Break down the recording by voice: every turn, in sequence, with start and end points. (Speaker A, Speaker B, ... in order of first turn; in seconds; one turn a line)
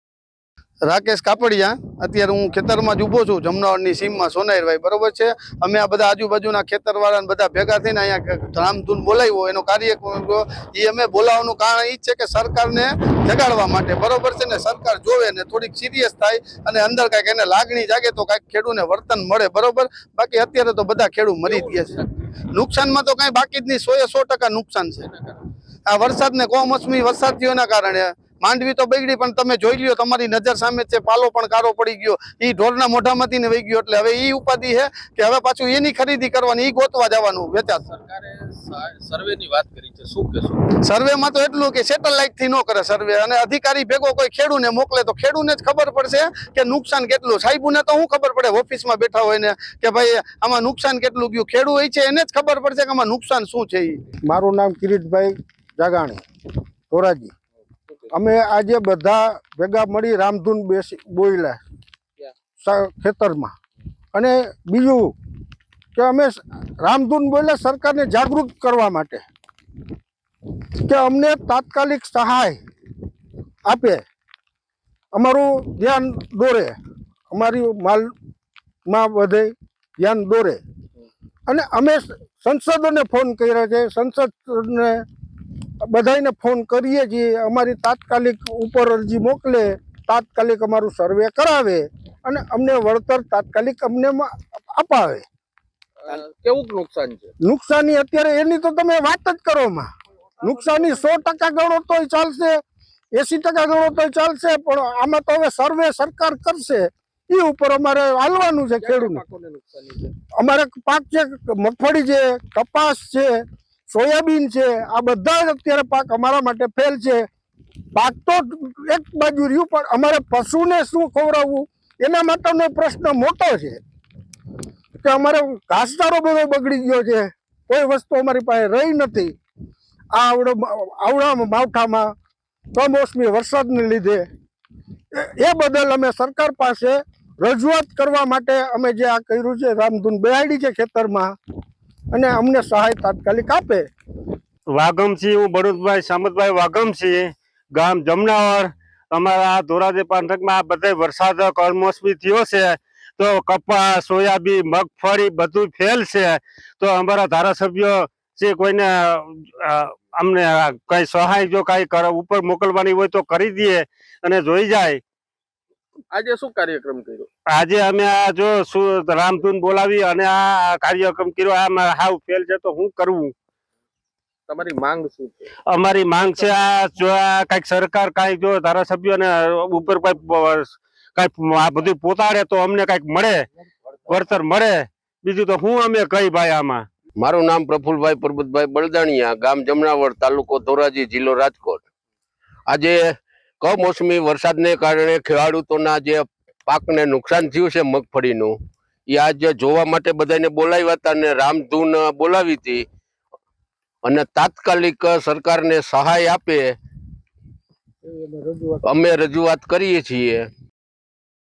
Speaker A: 0.9-22.0
Speaker B: 21.5-22.1
Speaker A: 22.5-25.1
Speaker A: 25.9-37.9
Speaker B: 37.9-40.6
Speaker A: 40.8-54.0
Speaker C: 54.2-56.2
Speaker C: 56.9-57.3
Speaker C: 58.1-61.6
Speaker C: 62.6-63.5
Speaker C: 64.1-65.1
Speaker C: 66.0-69.3
Speaker C: 70.8-72.6
Speaker C: 73.7-74.0
Speaker C: 75.2-76.8
Speaker C: 77.3-78.1
Speaker C: 78.9-80.6
Speaker C: 81.5-85.0
Speaker C: 85.8-95.2
Speaker B: 96.0-97.3
Speaker C: 97.4-99.9
Speaker C: 100.4-102.6
Speaker C: 103.2-109.2
Speaker B: 108.8-110.1
Speaker C: 110.3-117.3
Speaker C: 118.0-123.8
Speaker C: 125.0-129.3
Speaker C: 130.1-132.1
Speaker C: 132.7-134.3
Speaker C: 135.1-141.3
Speaker C: 142.1-143.9
Speaker D: 144.7-165.0
Speaker B: 166.1-167.3
Speaker D: 167.5-173.3
Speaker B: 174.5-175.5
Speaker D: 175.7-183.5
Speaker B: 176.2-176.5
Speaker D: 184.1-186.9
Speaker E: 187.2-191.8
Speaker E: 192.7-198.6
Speaker E: 199.1-202.9
Speaker E: 204.0-206.8
Speaker C: 208.1-208.8
Speaker E: 208.9-210.5